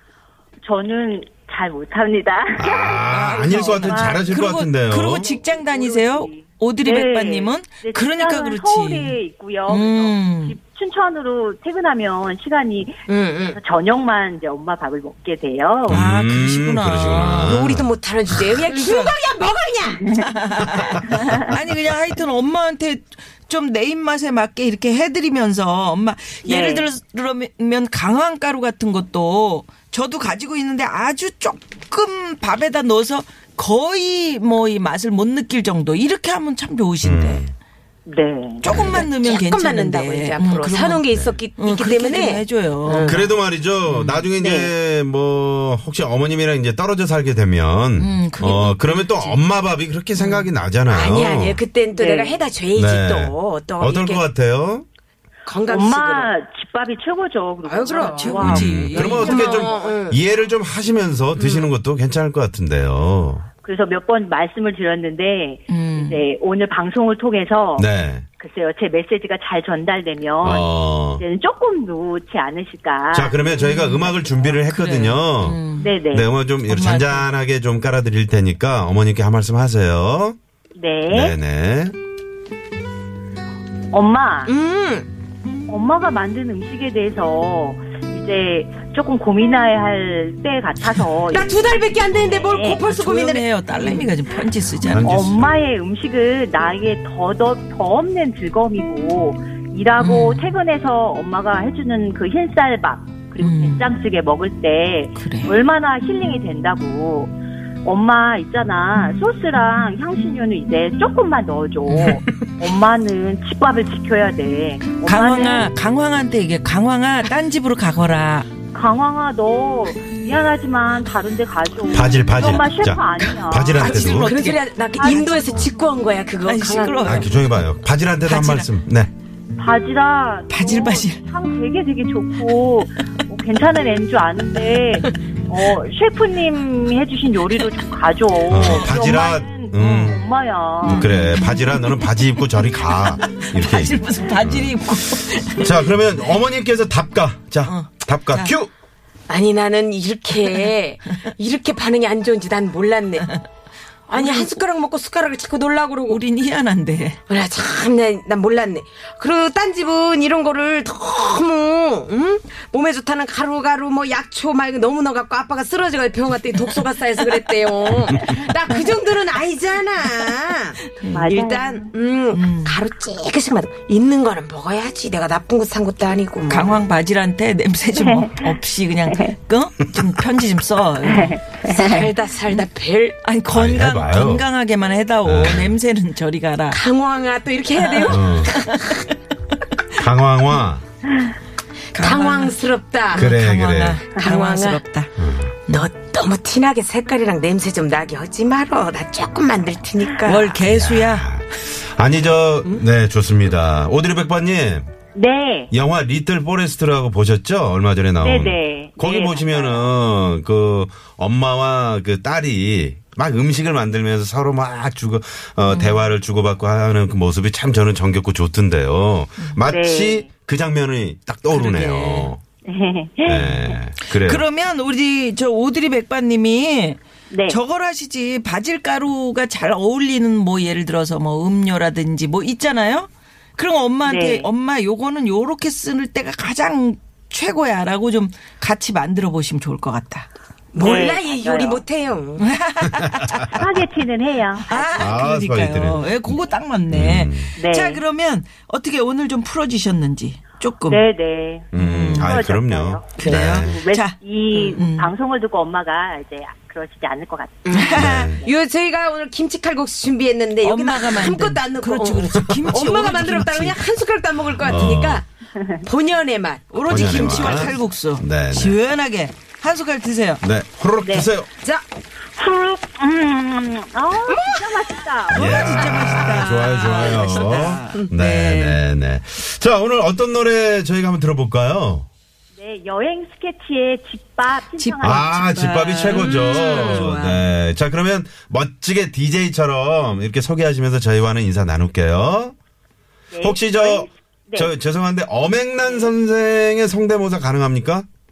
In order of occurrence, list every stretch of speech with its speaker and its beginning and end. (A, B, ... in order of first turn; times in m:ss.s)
0:00.6-0:04.2 A
0:02.6-0:05.3 B
0:03.1-0:09.2 C
0:05.2-0:13.0 A
0:09.7-0:10.6 C
0:13.1-0:13.6 D
0:13.5-0:16.0 A
0:15.9-0:17.9 B
0:15.9-0:17.7 C
0:17.4-0:20.0 D
0:18.5-0:19.1 C
0:20.1-0:37.5 C
0:21.0-0:21.4 A
0:26.4-0:26.9 A
0:37.0-0:37.5 B
0:38.1-0:38.8 A
0:38.6-0:41.0 C
0:38.6-0:39.1 B
0:38.8-0:43.2 D
0:41.1-0:41.4 B
0:41.6-0:43.2 C
0:43.0-0:51.6 B
0:43.9-0:44.3 C
0:44.4-0:44.7 D
0:48.0-0:49.4 C
0:50.2-0:50.5 C
0:50.9-0:54.2 D
0:51.9-0:52.4 A
0:52.7-0:54.9 B
0:55.5-0:56.3 D
0:55.6-1:00.0 A
0:57.6-0:58.6 D
0:57.9-0:59.7 C
0:58.4-1:03.5 B
0:59.3-1:00.2 D
1:01.4-1:01.7 D
1:03.6-1:07.9 A
1:05.7-1:06.2 C
1:07.8-1:08.3 B
1:08.4-1:13.7 A
1:10.4-1:11.2 B
1:13.1-1:20.4 B
1:13.6-1:15.9 C
1:15.8-1:16.3 A
1:16.6-1:17.3 C
1:20.8-1:21.4 A
1:21.1-1:22.0 B
1:23.9-1:24.5 A
1:24.5-1:25.1 D
1:25.7-1:32.9 A
1:31.3-1:34.1 D
1:32.8-1:35.2 C
1:34.8-1:35.6 B
1:35.0-1:55.7 A
1:40.0-1:40.5 C
1:43.4-1:43.9 C
1:45.2-1:45.6 C
1:51.9-1:52.2 C
1:55.0-1:58.5 C
1:58.7-2:03.8 A
2:01.9-2:04.4 B
2:03.7-2:07.3 D
2:03.8-2:05.2 C
2:05.0-2:05.5 A
2:06.4-2:07.5 C
2:07.0-2:09.1 B
2:08.2-2:08.7 C
2:09.6-2:21.1 A
2:10.5-2:11.2 C
2:18.5-2:20.2 B
2:18.5-2:20.0 C
2:20.8-2:24.8 B
2:20.9-2:25.9 C
2:25.5-2:28.7 B
2:27.6-2:28.5 C
2:29.3-2:33.3 D
2:34.1-2:36.2 D
2:34.1-2:34.5 C
2:36.1-2:37.2 C
2:37.3-2:56.8 D
2:50.8-2:51.3 C
2:51.2-2:51.9 A
2:52.3-2:52.8 C
2:56.5-3:01.4 C
2:58.0-2:58.5 A
3:01.0-3:02.1 A
3:01.7-3:03.2 D
3:03.2-3:06.8 C
3:03.5-3:04.5 B
3:05.2-3:05.8 B
3:06.7-3:08.9 D
3:07.8-3:09.1 C
3:08.1-3:08.6 B
3:09.9-3:10.8 B
3:11.9-3:12.6 C
3:11.9-3:13.3 D
3:13.1-3:14.0 B
3:13.1-3:15.1 C
3:14.2-3:14.8 D
3:15.2-3:15.6 B
3:15.7-3:20.6 D
3:20.2-3:21.3 C
3:20.6-3:24.9 B
3:25.1-3:25.7 A
3:25.7-3:42.4 B
3:28.2-3:29.9 A
3:35.7-3:36.0 C
3:39.7-3:40.3 A
3:41.5-3:42.3 C
3:42.6-3:43.8 A
3:43.2-3:44.4 B
3:44.0-4:00.3 C
3:47.3-3:47.6 A
3:54.0-3:54.5 A
4:00.7-4:02.5 D
4:00.8-4:01.8 A
4:02.4-4:03.6 C
4:03.0-4:03.4 B
4:03.5-4:05.0 A
4:04.7-4:11.0 C
4:05.0-4:06.4 B
4:06.9-4:07.5 B
4:07.6-4:08.0 A
4:10.9-4:18.5 A
4:11.7-4:12.4 C
4:11.7-4:13.8 B
4:13.2-4:14.1 C
4:14.7-4:15.1 C
4:17.6-4:25.3 D
4:17.7-4:18.3 C
4:18.0-4:18.4 B
4:20.6-4:23.8 C
4:22.5-4:23.0 B
4:24.6-4:25.2 B
4:25.6-4:25.8 A
4:25.8-4:27.8 D
4:26.7-4:30.4 C
4:26.9-4:28.8 B
4:30.4-4:31.5 B
4:31.0-4:31.3 A
4:31.6-4:31.9 D
4:32.3-4:36.1 A
4:34.3-4:35.0 D
4:35.3-4:42.1 B
4:35.3-4:38.8 C
4:35.8-4:36.5 D
4:42.6-4:45.3 A
4:44.8-4:47.5 C
4:45.0-4:52.5 B
4:46.1-4:47.1 D
4:53.3-4:54.7 A
4:53.4-4:58.1 B